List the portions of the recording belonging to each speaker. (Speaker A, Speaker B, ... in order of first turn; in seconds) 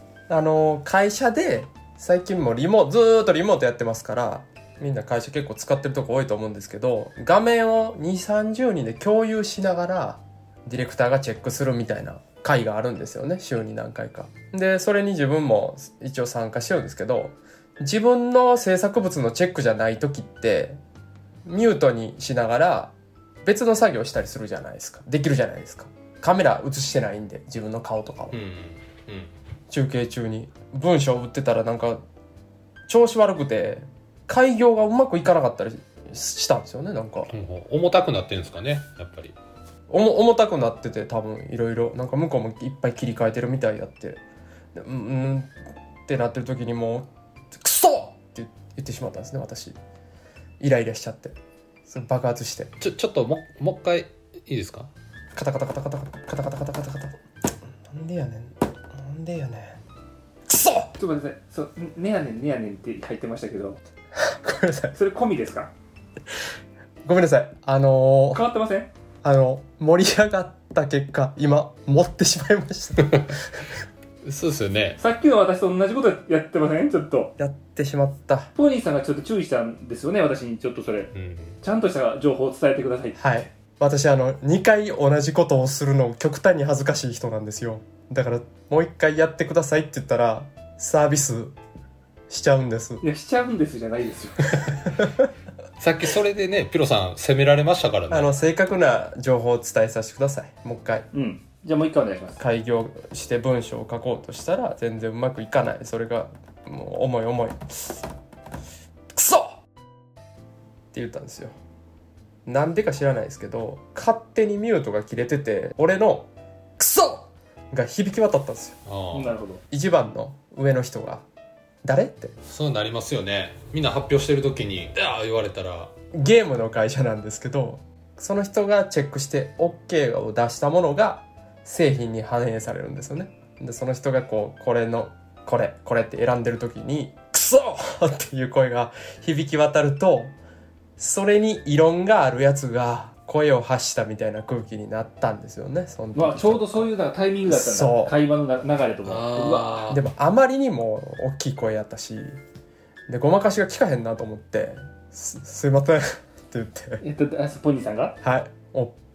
Speaker A: 0.3-20.8, 21.4-28.4, 29.7-32.0, 32.9-37.3, 39.9-44.2, 44.8-45.5, 46.1-49.8, 50.6-51.3, 51.9-52.7, 55.3-57.1, 57.9-59.8, 60.5-60.9, 64.2-64.9, 67.0-68.4, 69.2-73.6, 77.4-78.5, 83.2-91.5, 92.3-93.0, 98.1-101.1, 102.4-108.0, 109.1-109.6, 110.9-111.5, 112.5-118.8, 119.7-121.2, 121.8-122.3, 126.1-140.3, 141.0-146.9, 147.5-148.1, 149.9-152.3, 153.1-157.0, 158.2-159.0
Speaker B: 28.3-29.3, 37.3-39.4, 52.8-54.9, 73.0-73.4, 74.2-75.0, 81.1-81.6, 95.8-98.3, 118.8-119.3, 122.4-125.9, 149.0-150.0
Speaker C: 61.0-63.8, 64.9-65.7, 68.3-68.9, 75.0-77.3, 78.5-83.2, 93.0-94.7, 101.1-102.4, 119.1-119.6, 146.1-149.9, 157.0-158.2